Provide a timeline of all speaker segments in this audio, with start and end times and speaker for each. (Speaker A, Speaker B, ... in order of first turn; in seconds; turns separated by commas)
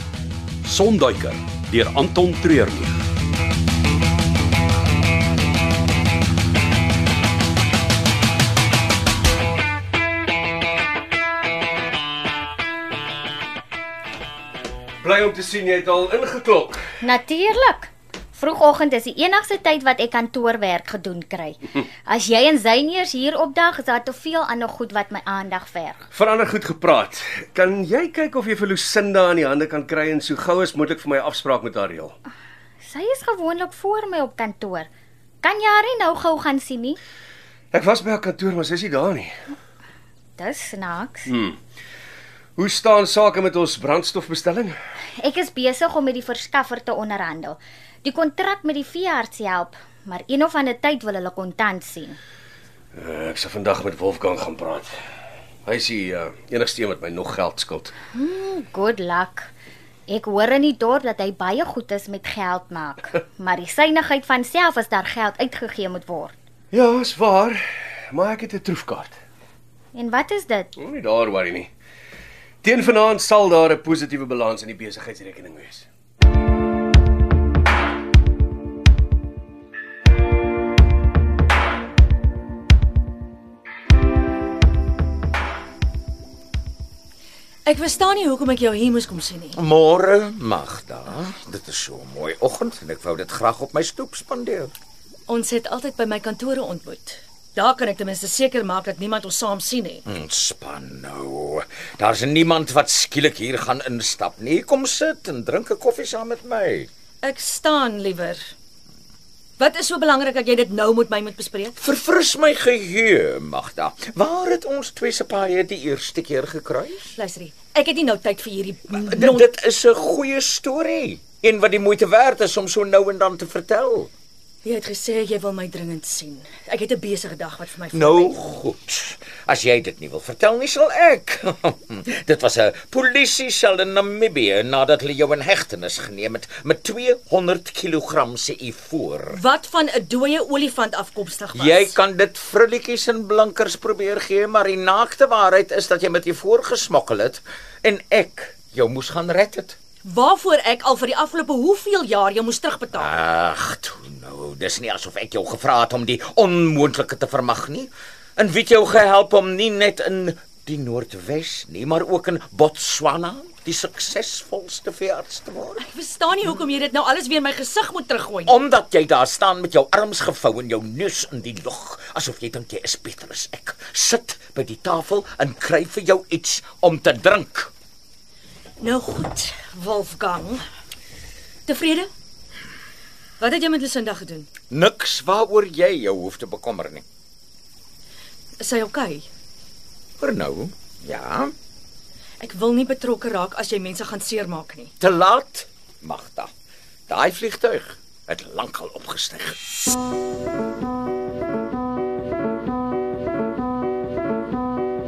Speaker A: 0.6-2.9, Speaker B: 15.0-16.8, Speaker C: 17.0-26.1, Speaker B: 26.1-32.1, Speaker C: 32.8-34.9, Speaker C: 35.4-37.0, Speaker B: 37.7-39.3, Speaker C: 40.4-41.3, Speaker B: 41.3-41.6, Speaker B: 42.6-44.8, Speaker C: 45.2-52.2, Speaker B: 52.9-54.9, Speaker B: 55.7-57.9, Speaker C: 58.1-59.5, Speaker C: 60.1-66.3, Speaker B: 66.7-69.2, Speaker C: 69.9-70.7, Speaker B: 70.8-71.7, Speaker B: 72.6-75.9, Speaker D: 87.7-89.6, Speaker E: 89.6-94.7, Speaker D: 95.3-100.0, Speaker E: 100.1-106.9, Speaker D: 107.2-108.4, Speaker D: 109.6-111.8, Speaker E: 111.8-117.1, Speaker D: 117.2-119.5, Speaker E: 118.9-124.1, Speaker D: 124.6-128.4, Speaker E: 127.9-139.4, Speaker D: 139.3-141.9, Speaker E: 141.6-149.8, Speaker D: 150.1-153.1, Speaker E: 153.0-165.8, Speaker D: 165.8-168.6, Speaker E: 168.5-177.7, Speaker D: 178.8-180.6, Speaker D: 181.7-182.1, Speaker D: 183.4-184.5, Speaker E: 184.7-187.0, Speaker D: 188.6-189.3, Speaker E: 190.2-191.5, Speaker D: 192.4-194.9, Speaker E: 195.0-196.5, Speaker E: 197.1-199.6